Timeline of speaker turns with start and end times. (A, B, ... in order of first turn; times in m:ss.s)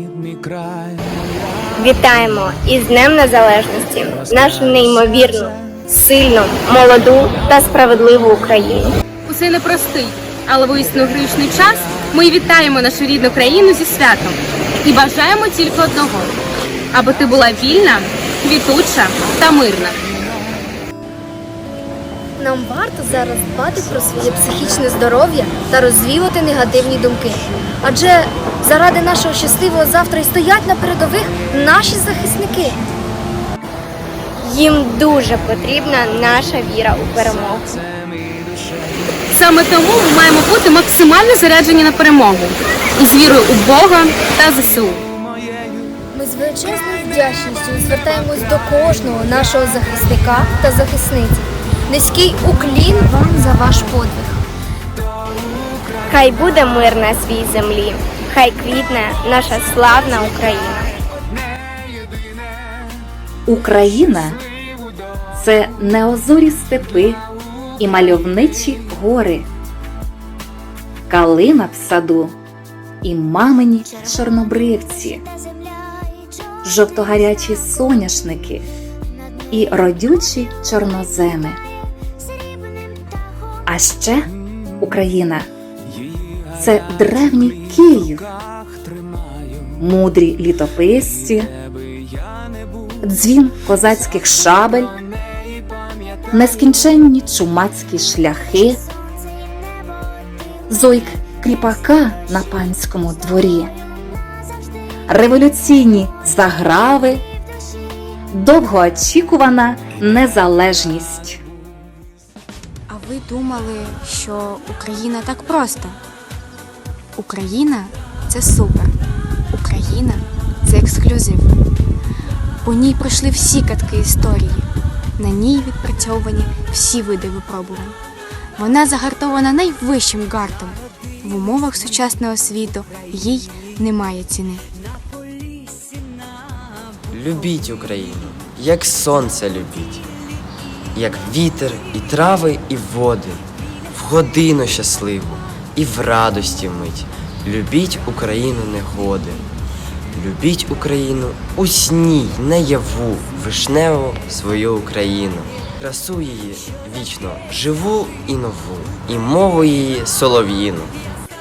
0:01.8-0:08.9 A
0:09.3-0:16.3 B
0:16.9-0:20.0 B
0:22.4-0:32.8 C
0:34.4-0:37.8 A
0:39.3-0:45.0 B
0:46.1-0:54.4 C
0:56.1-1:00.9 A
1:03.5-1:04.4 D
1:05.4-1:07.2 D
1:07.8-1:09.5 D
1:11.1-1:12.4 D
1:13.0-1:15.2 D
1:16.6-1:18.7 D
1:19.5-1:21.6 D
1:23.7-1:25.4 D
1:26.6-1:28.3 D
1:29.8-1:31.5 D
1:33.0-1:34.9 D
1:36.3-1:38.8 D
1:40.7-1:43.7 D
1:45.1-1:47.2 D
1:48.3-1:51.4 D
1:52.9-1:56.0 E
1:57.2-1:59.0 E
1:59.5-2:01.6 E
2:02.6-2:08.0 E
2:08.6-2:14.6 E
2:17.1-2:20.0 F
2:21.0-2:29.5 F
2:30.1-2:41.0 F